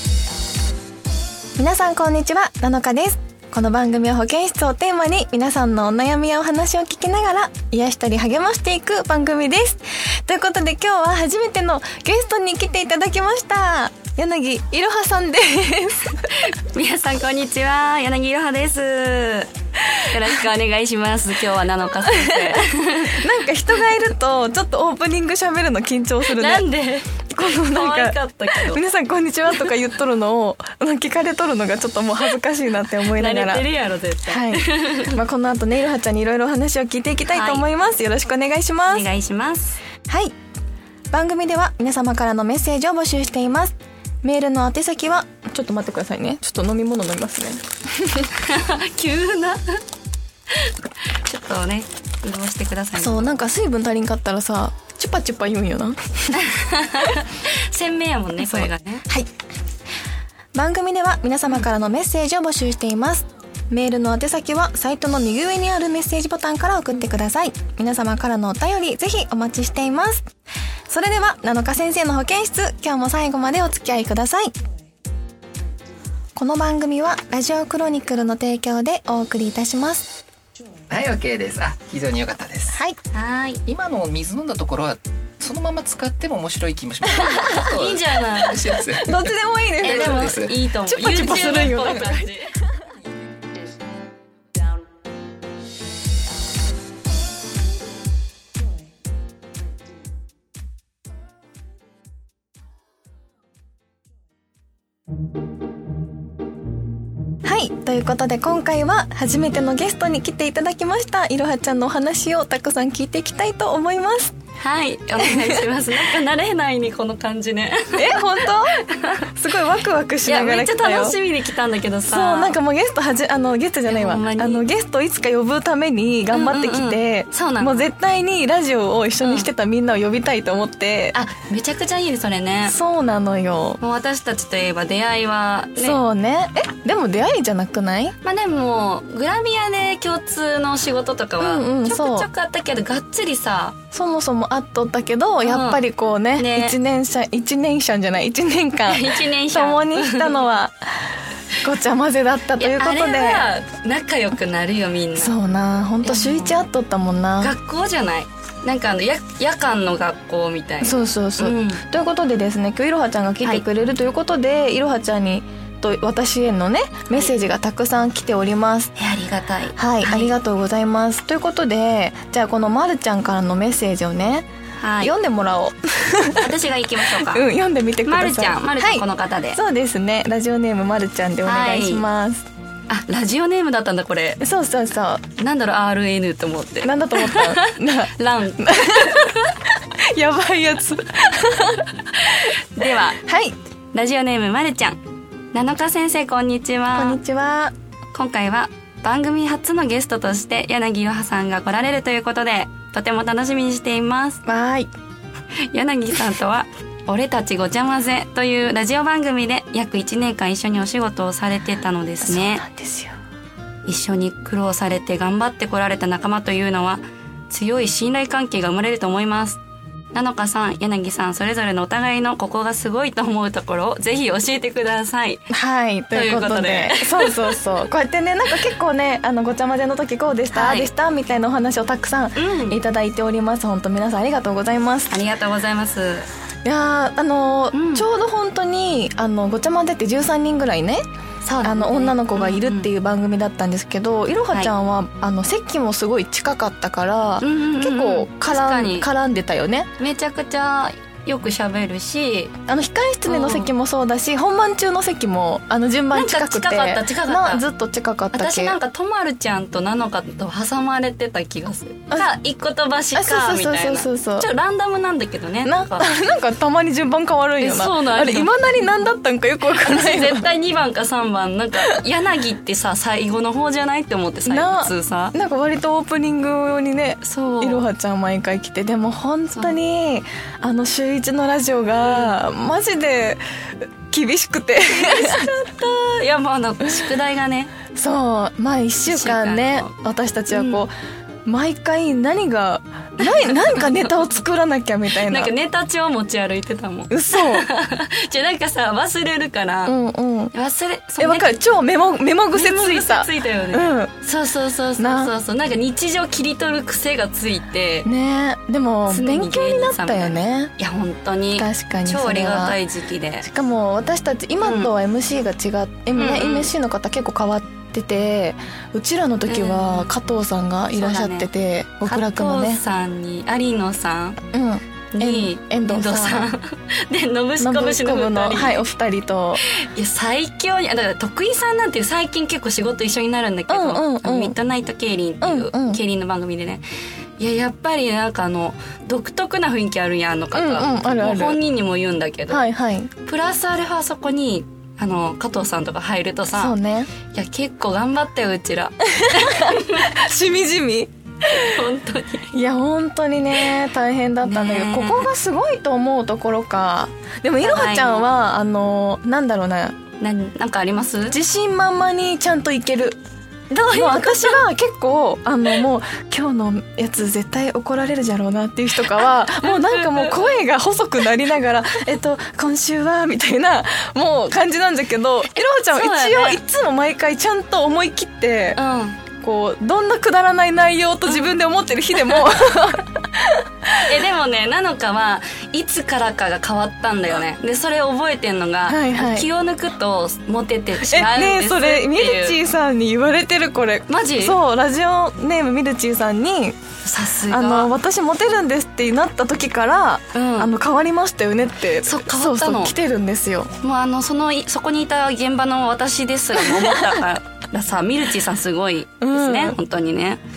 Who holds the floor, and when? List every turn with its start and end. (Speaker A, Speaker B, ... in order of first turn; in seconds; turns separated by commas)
Speaker A: 1.6-16.3, Speaker B: 16.3-19.5, Speaker B: 20.1-23.2, Speaker A: 22.1-26.6, Speaker B: 26.3-28.8, Speaker A: 27.3-33.6, Speaker B: 33.1-35.2, Speaker A: 34.3-39.1, Speaker B: 37.3-37.7, Speaker B: 38.9-39.8, Speaker A: 40.1-40.3, Speaker A: 41.1-48.3, Speaker B: 48.4-49.8, Speaker B: 50.5-53.4, Speaker A: 53.0-56.5, Speaker B: 56.4-59.1, Speaker A: 58.4-59.3, Speaker A: 60.5-70.2, Speaker A: 70.9-74.5, Speaker A: 76.4-80.1, Speaker C: 80.9-82.8, Speaker B: 83.1-83.6, Speaker C: 83.7-89.3, Speaker A: 87.1-87.8, Speaker B: 87.3-88.7, Speaker A: 88.9-92.4, Speaker B: 89.8-92.5, Speaker C: 89.8-90.5, Speaker A: 107.5-114.3, Speaker B: 114.6-119.3, Speaker A: 115.2-116.0, Speaker A: 118.0-118.8, Speaker A: 119.3-121.2, Speaker B: 120.2-122.6, Speaker A: 122.1-131.2, Speaker B: 123.9-124.6, Speaker B: 126.3-127.9, Speaker B: 129.2-129.5, Speaker B: 131.1-132.8, Speaker A: 132.6-133.8, Speaker B: 133.8-136.0, Speaker A: 135.8-138.2, Speaker B: 138.2-143.8, Speaker A: 141.4-142.3, Speaker A: 143.9-153.5, Speaker B: 145.4-145.8, Speaker B: 146.4-146.8, Speaker B: 148.9-150.4, Speaker B: 152.6-155.4, Speaker A: 155.2-157.5, Speaker B: 156.0-156.7, Speaker B: 157.4-161.8, Speaker A: 160.8-168.9, Speaker B: 167.1-167.5, Speaker B: 169.0-170.3, Speaker A: 169.8-174.4, Speaker B: 174.8-175.1, Speaker A: 175.0-176.5, Speaker B: 176.4-177.5, Speaker A: 177.2-182.5, Speaker B: 178.1-179.6, Speaker B: 181.4-182.1, Speaker B: 182.9-184.4, Speaker A: 184.4-185.2, Speaker B: 185.4-189.6, Speaker A: 186.8-189.3, Speaker A: 190.1-193.6, Speaker B: 192.2-193.2, Speaker B: 193.9-195.0, Speaker B: 195.5-197.2, Speaker A: 196.9-197.7, Speaker B: 198.1-204.4, Speaker A: 204.5-204.9, Speaker B: 205.7-212.6, Speaker A: 212.2-213.1, Speaker B: 213.9-219.6, Speaker B: 220.1-225.4, Speaker A: 225.5-235.2, Speaker B: 226.1-227.6, Speaker B: 230.5-230.9, Speaker B: 232.4-232.8, Speaker B: 235.1-236.3, Speaker A: 236.7-241.0, Speaker B: 237.7-238.1, Speaker B: 241.4-242.9, Speaker A: 241.6-249.9, Speaker B: 247.4-249.1, Speaker B: 250.0-252.5, Speaker A: 252.7-258.8, Speaker B: 253.3-253.7, Speaker B: 256.1-257.6, Speaker B: 258.3-266.1, Speaker A: 263.1-264.5, Speaker A: 265.6-270.5, Speaker B: 267.6-268.5, Speaker B: 269.7-275.4, Speaker A: 274.5-283.4, Speaker B: 277.2-277.9, Speaker B: 282.0-282.4, Speaker A: 284.1-285.5, Speaker B: 284.9-287.7, Speaker A: 287.9-290.9, Speaker B: 289.1-289.9, Speaker B: 290.5-290.9, Speaker A: 291.5-295.5, Speaker B: 293.2-294.2, Speaker B: 295.2-299.9, Speaker A: 297.1-297.7, Speaker A: 299.9-300.5, Speaker B: 300.5-301.5, Speaker A: 301.2-304.1, Speaker B: 302.5-308.1, Speaker A: 305.0-305.3, Speaker A: 308.1-310.7, Speaker B: 309.1-313.5, Speaker A: 311.6-312.8, Speaker A: 313.4-322.8, Speaker B: 314.6-314.9, Speaker B: 316.1-316.7, Speaker B: 319.5-320.1, Speaker B: 320.9-321.5, Speaker B: 322.1-324.4, Speaker A: 324.5-326.5, Speaker B: 325.1-328.9, Speaker A: 327.6-329.6, Speaker B: 329.7-336.8, Speaker A: 333.7-334.6, Speaker A: 335.4-336.0, Speaker B: 337.4-342.6, Speaker A: 340.5-341.6, Speaker A: 342.5-343.1, Speaker B: 343.3-346.8, Speaker A: 346.5-347.1, Speaker B: 347.3-350.2, Speaker A: 349.1-351.8, Speaker B: 351.5-352.5, Speaker A: 352.5-360.0, Speaker B: 354.4-355.3, Speaker B: 357.6-358.3, Speaker B: 360.2-361.4, Speaker A: 361.3-363.2, Speaker A: 363.7-378.8, Speaker B: 363.8-364.6, Speaker B: 369.6-370.6, Speaker B: 375.5-376.6, Speaker B: 378.8-379.2, Speaker A: 379.4-384.2, Speaker B: 381.3-381.5, Speaker B: 384.0-392.6, Speaker A: 388.9-389.5, Speaker A: 391.0-396.8, Speaker B: 394.1-394.6, Speaker B: 397.1-397.9, Speaker A: 397.5-403.7, Speaker B: 400.3-400.7, Speaker B: 402.0-402.9, Speaker B: 403.8-410.4, Speaker A: 406.7-407.2, Speaker A: 409.2-409.8